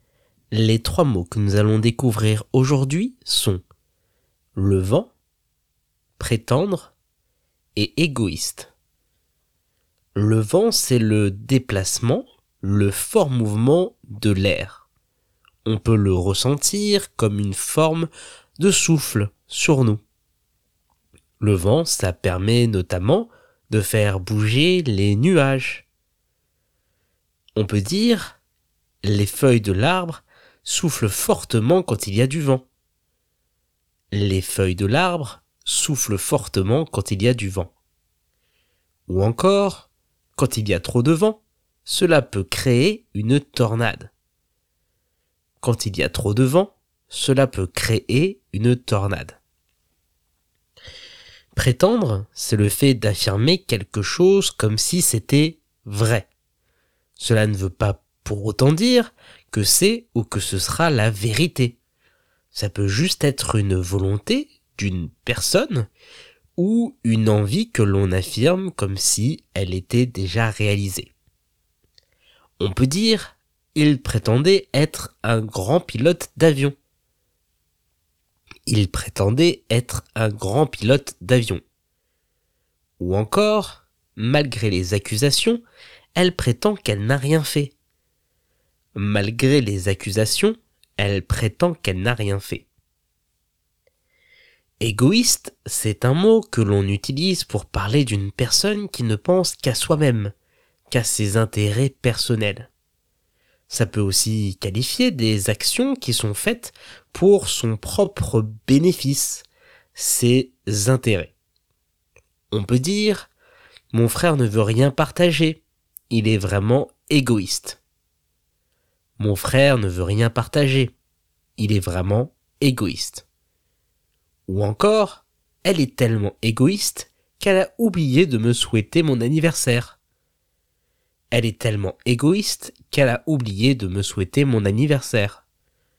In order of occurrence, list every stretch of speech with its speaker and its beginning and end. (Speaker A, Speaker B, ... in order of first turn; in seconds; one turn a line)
Speaker A: 0.5-3.6
Speaker A: 4.5-5.1
Speaker A: 6.2-6.9
Speaker A: 7.8-8.7
Speaker A: 10.1-14.9
Speaker A: 15.6-20.0
Speaker A: 21.4-25.9
Speaker A: 27.5-28.4
Speaker A: 29.0-32.6
Speaker A: 34.1-37.7
Speaker A: 39.1-44.1
Speaker A: 45.6-49.4
Speaker A: 51.5-56.3
Speaker A: 57.2-61.8
Speaker A: 62.5-65.9
Speaker A: 66.6-71.1
Speaker A: 72.6-76.7
Speaker A: 78.7-81.6
Speaker A: 83.0-85.6
Speaker A: 86.2-87.7
Speaker A: 88.9-92.7
Speaker A: 94.8-100.3
Speaker A: 100.9-102.7
Speaker A: 103.7-111.3
Speaker A: 112.5-113.3
Speaker A: 113.9-117.8
Speaker A: 119.2-120.9
Speaker A: 121.6-123.2
Speaker A: 124.5-130.0
Speaker A: 131.3-135.4